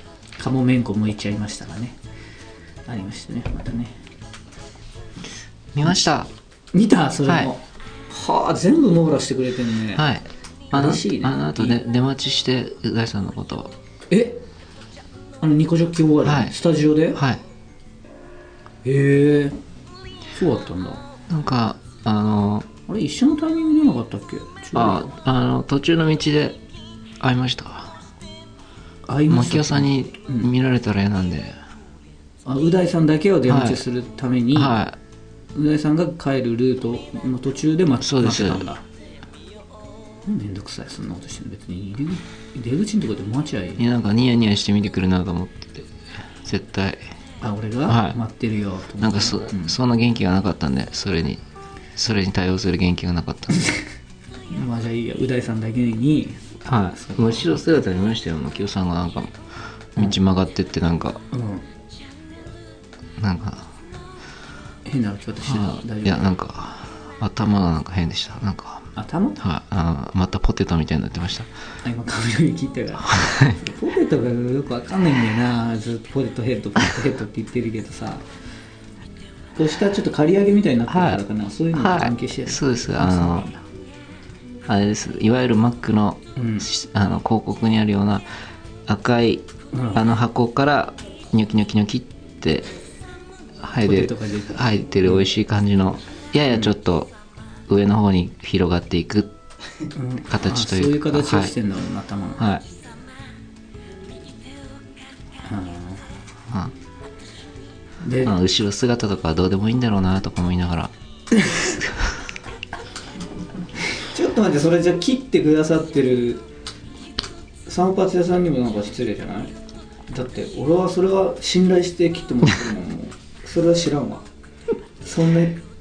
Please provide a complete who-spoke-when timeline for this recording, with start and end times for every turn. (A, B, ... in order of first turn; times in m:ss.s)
0:00.4-0:02.0 A
0:02.9-0:04.0 A
0:05.7-0:06.3 B
0:06.7-0:10.1 A
0:07.2-0:07.5 B
0:09.9-0:13.7 B
0:10.7-0:11.8 A
0:14.1-0:14.4 A
0:15.4-0:17.2 A
0:16.2-0:16.6 B
0:17.1-0:17.4 B
0:18.8-0:19.6 A
0:20.3-0:21.0 A
0:21.3-0:22.7 B
0:22.9-0:25.1 A
0:24.7-0:26.6 B
0:27.2-0:28.0 B
0:29.1-0:30.5 A
0:29.3-0:31.6 B
0:32.4-0:34.8 A
0:33.5-0:33.8 B
0:34.5-0:35.0 B
0:35.5-0:38.8 A
0:38.0-0:38.6 B
0:40.2-0:43.8 A
0:43.8-0:45.9 B
0:46.4-0:47.0 B
0:47.4-0:49.8 A
0:47.9-0:48.2 B
0:49.0-0:51.4 B
0:52.0-0:53.7 B
0:54.5-0:57.5 A
0:56.6-0:59.3 B
0:59.9-1:01.2 B
1:01.3-1:01.6 A
1:03.2-1:03.7 B
1:04.8-1:06.3 A
1:05.4-1:11.5 B
1:09.0-1:09.4 A
1:11.8-1:18.2 A
1:13.1-1:13.6 B
1:19.6-1:23.6 A
1:20.9-1:21.2 B
1:21.7-1:23.5 B
1:24.7-1:28.2 B
1:26.4-1:26.7 A
1:28.9-1:32.7 B
1:29.7-1:30.0 A
1:33.6-1:37.1 B
1:33.8-1:35.3 A
1:37.7-1:39.3 B
1:39.9-1:42.4 A
1:40.3-1:41.5 B
1:42.4-1:42.6 B
1:45.4-1:46.1 A
1:48.0-1:48.3 A
1:48.2-1:50.9 B
1:54.0-1:56.4 A
1:57.7-1:59.5 A
2:00.1-2:04.3 A
2:05.0-2:05.6 A